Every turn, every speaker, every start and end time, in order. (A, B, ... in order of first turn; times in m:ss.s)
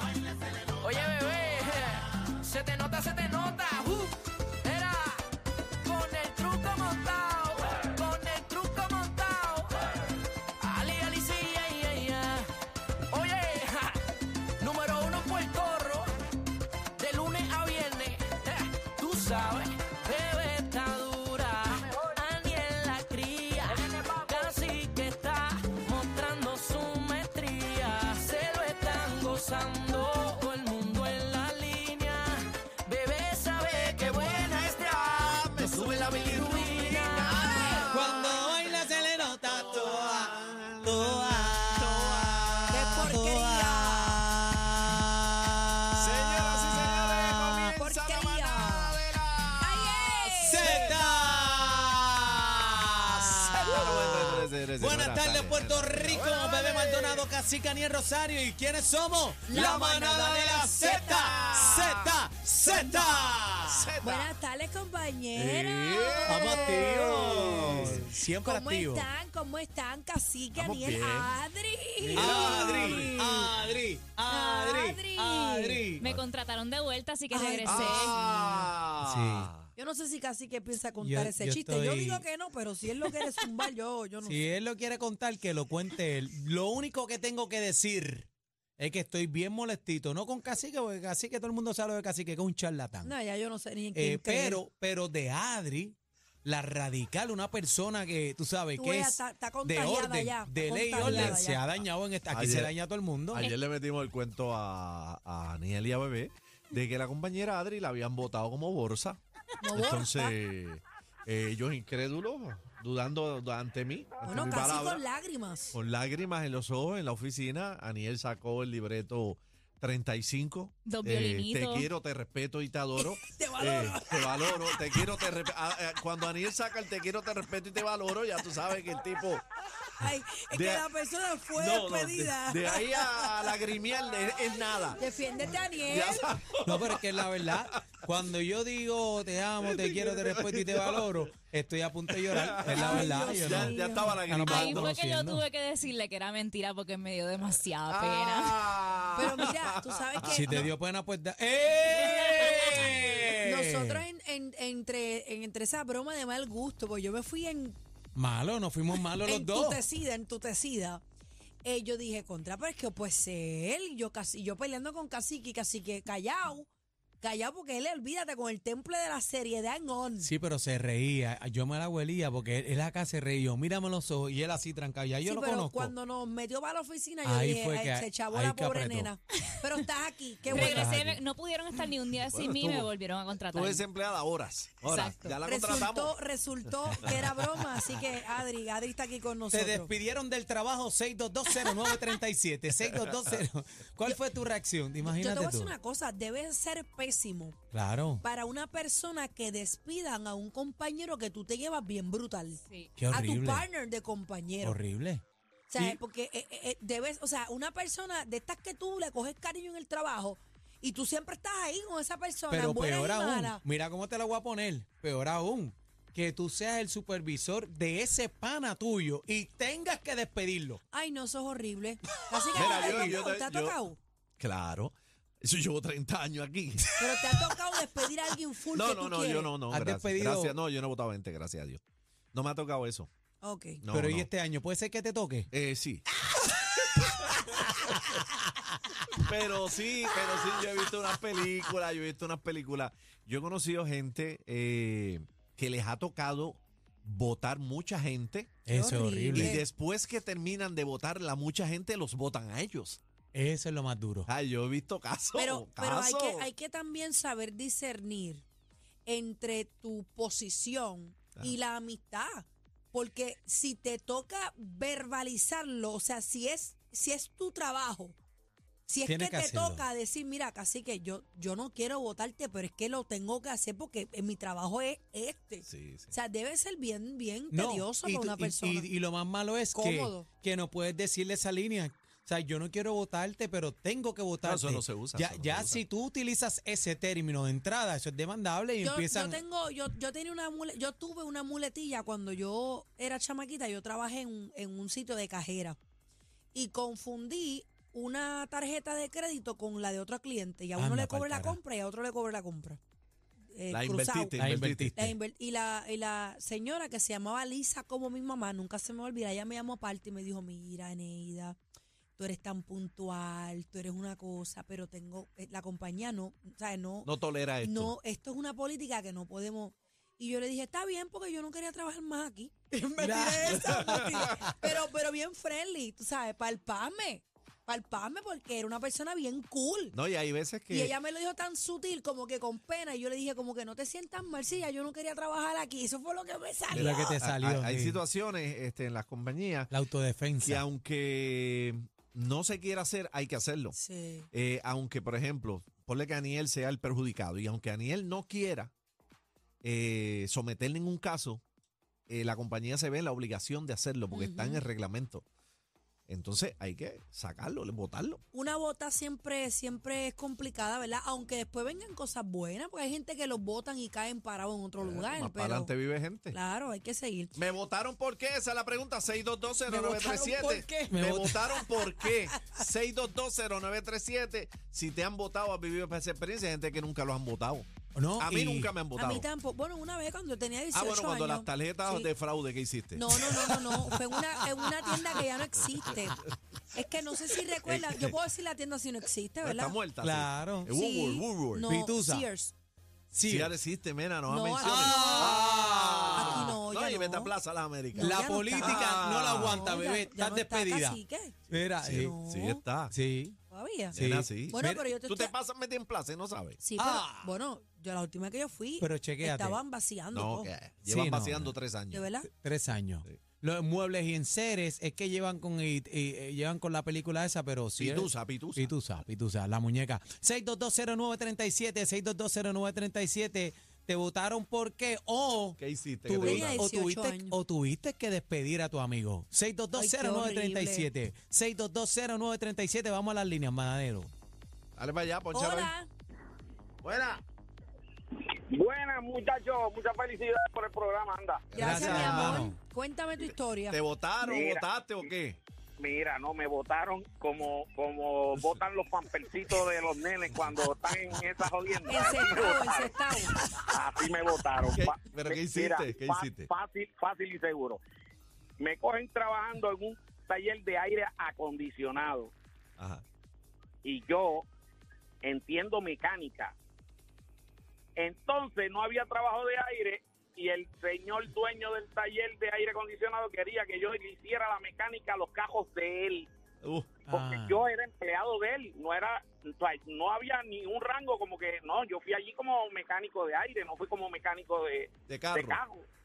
0:00.6-0:05.3 A
0:05.8-0:09.7 A
0:10.6-0:12.5 A
0:13.1-0:14.0 A
0:14.6-0:16.1 A
0:17.0-0:37.7 A
0:33.7-0:38.4 B
0:36.8-0:37.9 C
0:37.8-0:47.6 D
0:39.4-0:42.9 B
0:42.7-0:44.2 C
0:46.0-0:51.0 B
0:47.7-0:49.0 C
0:49.6-0:50.9 C
0:50.4-1:03.9 D
0:53.5-0:57.3 B
0:59.5-1:00.1 C
0:59.5-1:02.1 B
1:00.7-1:01.9 C
1:02.6-1:03.2 C
1:03.6-1:04.3 B
1:04.0-1:07.8 C
1:05.3-1:08.1 B
1:06.3-1:09.1 D
1:08.4-1:13.6 C
1:10.5-1:11.4 B
1:12.1-1:13.2 B
1:12.1-1:16.0 D
1:14.2-1:15.9 C
1:16.0-1:18.2 E
1:17.3-1:18.6 C
1:17.6-1:19.7 B
1:19.0-1:19.5 D
1:19.8-1:24.4 C
1:21.0-1:22.2 D
1:24.2-1:33.1 D
1:33.0-1:34.6 C
1:33.9-1:43.4 D
1:38.7-1:41.6 C
1:41.0-1:42.7 B
1:43.3-1:49.2 B
1:49.6-1:50.3 C
1:49.7-1:55.0 B
1:54.2-1:55.7 C
1:55.7-2:09.4 B
2:00.8-2:01.9 E
2:03.0-2:04.8 C
2:10.0-2:13.5 C
2:10.5-2:10.8 B
2:11.5-2:15.0 B
2:14.9-2:16.2 C
2:15.7-2:17.8 B
2:16.6-2:25.4 D
2:19.6-2:21.2 B
2:22.1-2:24.9 B
2:22.7-2:24.1 C
2:24.4-2:28.6 E
2:27.4-2:30.7 B
2:29.2-2:30.7 C
2:30.2-2:34.0 D
2:33.2-2:37.8 C
2:38.1-2:39.8 D
2:39.1-2:41.0 C
2:41.6-2:46.7 C
2:47.2-2:50.3 C
2:50.2-2:55.9 D
2:55.2-3:01.1 C
2:57.2-2:59.1 D
3:00.5-3:03.8 E
3:00.5-3:01.2 D
3:02.2-3:02.9 B
3:03.5-3:06.2 B
3:04.8-3:05.4 E
3:05.4-3:09.9 C
3:07.0-3:07.3 D
3:09.5-3:15.7 D
3:15.0-3:17.6 C
3:17.7-3:18.2 D
3:18.2-3:24.8 C
3:22.7-3:22.9 E
3:23.0-3:23.6 D
3:24.6-3:25.2 D
3:25.7-3:33.6 C
3:32.5-3:40.8 D
3:40.9-3:44.0 C
3:42.5-3:43.1 D
3:42.5-3:43.8 B
3:44.4-3:46.8 B
3:47.0-3:49.5 C
3:48.7-3:51.8 B
3:49.7-3:50.6 D
3:52.3-3:53.1 B
3:53.4-3:53.8 C
3:53.8-3:54.3 B
3:53.9-3:55.5 D
3:55.5-3:56.1 B
3:56.6-3:57.1 B
3:59.1-4:08.5 B
4:08.6-4:09.6 D
4:08.7-4:09.6 C
4:09.3-4:13.0 B
4:13.3-4:14.3 D
4:14.2-4:16.5 B
4:15.4-4:18.4 C
4:19.0-4:28.1 C
4:28.9-4:38.9 C
4:29.0-4:29.8 D
4:35.6-4:36.1 B
4:37.5-4:49.4 D
4:39.7-4:40.3 C
4:44.4-4:45.8 B
4:48.8-4:55.8 C
4:56.5-5:02.8 C
5:00.8-5:01.6 D
5:03.5-5:04.4 C
5:03.7-5:05.1 B
5:04.4-5:05.1 D
5:05.0-5:11.6 C
5:12.2-5:17.1 C
5:17.0-5:17.9 B
5:17.6-5:29.9 C
5:23.0-5:24.6 D
5:29.9-5:30.9 B
5:30.7-5:37.1 C
5:36.7-5:39.7 B
5:36.7-5:38.0 D
5:39.7-5:40.6 D
5:40.4-5:43.8 B
5:43.7-5:44.3 C
5:44.3-5:48.7 B
5:49.6-5:51.4 B
5:52.1-5:55.2 B
5:54.1-5:54.6 C
5:56.1-5:58.2 B
5:58.3-6:05.7 C
6:04.8-6:06.4 B
6:06.3-6:07.4 C
6:07.4-6:19.2 B
6:09.7-6:11.0 C
6:10.9-6:11.4 D
6:11.5-6:12.0 C
6:17.9-6:18.7 D
6:18.9-6:22.1 C
6:20.7-6:23.5 B
6:23.0-6:26.2 C
6:23.4-6:23.9 D
6:24.6-6:25.2 D
6:26.7-6:29.8 C
6:27.6-6:28.2 B
6:29.4-6:31.7 B
6:30.0-6:30.7 D
6:30.7-6:32.5 C
6:31.6-6:32.3 D
6:33.1-6:33.5 D
6:33.3-6:39.7 B
6:34.3-6:35.5 C
6:34.6-6:36.6 D
6:36.1-6:37.3 C
6:37.9-6:41.4 C
6:38.0-6:42.1 D
6:41.5-6:42.9 B
6:41.9-6:42.6 C
6:42.9-6:43.4 D
6:43.5-6:44.0 C
6:43.9-6:46.6 B
6:43.9-6:44.9 D
6:44.5-6:45.3 C
6:46.6-6:50.5 C
6:46.8-6:47.3 D
6:48.8-6:49.6 D
6:50.1-6:52.1 B
6:50.8-6:51.5 D
6:51.9-6:52.3 C
6:52.2-7:14.1 D
6:57.8-6:58.7 B
7:05.6-7:06.6 B
7:06.1-7:07.3 C
7:09.7-7:10.9 C
7:14.8-7:15.7 B
7:15.3-7:15.9 C
7:16.8-7:17.2 B
7:18.5-7:21.4 F
7:21.5-7:22.5 B
7:21.5-7:23.8 C
7:21.6-7:22.6 D
7:23.7-7:25.4 B
7:24.2-7:24.6 F
7:25.8-7:33.0 F
7:31.9-7:33.3 C
7:33.7-7:37.8 F
7:34.7-7:36.5 B
7:38.6-7:42.3 F
7:42.8-7:43.0 B
7:43.8-7:44.4 F
7:45.2-7:46.5 F
7:48.0-7:56.3 F
7:56.6-7:56.9 B
7:57.1-7:57.6 D
7:57.1-8:05.8 F
8:05.1-8:05.6 B